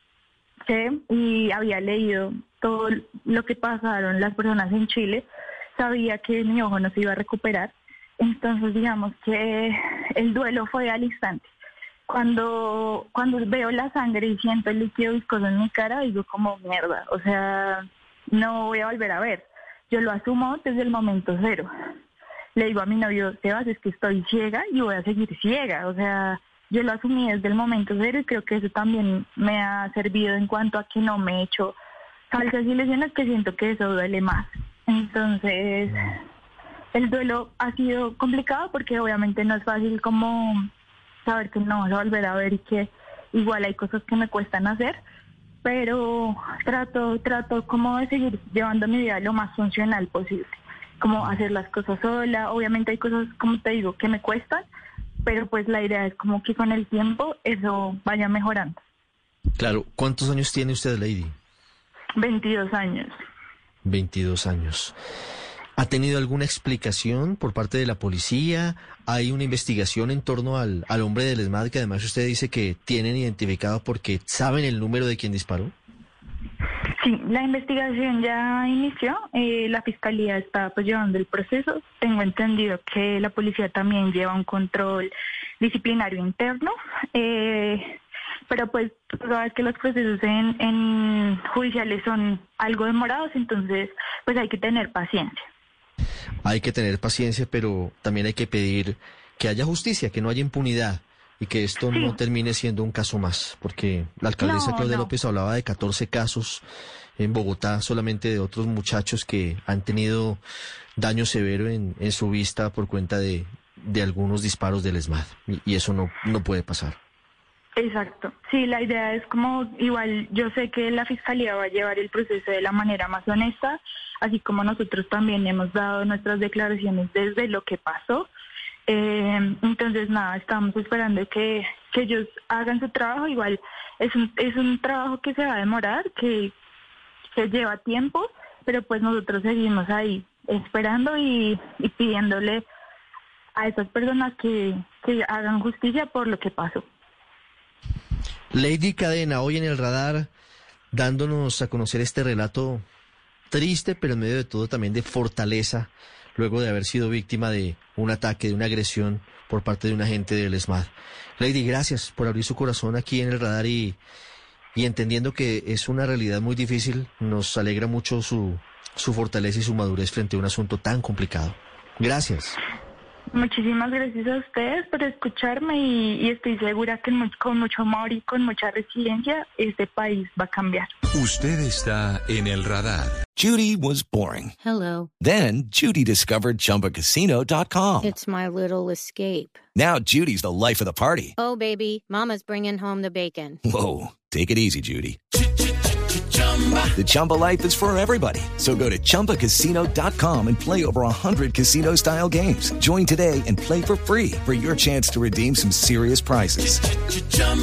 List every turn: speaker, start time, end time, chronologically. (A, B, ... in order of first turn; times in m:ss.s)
0:00.7-0:11.5 A
0:12.1-0:21.7 A
0:22.6-0:31.8 A
0:32.3-0:36.2 A
0:36.9-0:40.7 A
0:41.2-0:45.0 A
0:45.6-0:54.6 A
0:55.2-0:58.8 A
0:59.6-1:01.4 B
1:02.2-1:03.1 A
1:03.8-1:05.0 B
1:05.8-1:15.7 B
1:17.0-1:35.5 A
1:36.4-1:46.6 B
1:41.9-1:42.2 A
1:44.4-1:45.1 A
1:47.2-1:50.4 B
1:51.0-1:57.0 B
1:57.8-2:08.3 A
2:08.9-2:16.5 A
2:17.3-2:22.7 A
2:23.6-2:26.8 A
2:28.5-2:30.3 B
2:30.9-2:32.8 B
2:33.5-2:44.0 B
2:44.8-2:52.6 B
2:53.3-3:00.9 A
3:01.1-3:03.3 C
3:03.4-3:04.6 D
3:04.6-3:05.1 E
3:05.2-3:08.0 D
3:08.0-3:09.6 E
3:09.8-3:11.4 D
3:11.4-3:13.6 E
3:13.7-3:15.2 D
3:16.9-3:27.2 D
3:19.9-3:20.4 C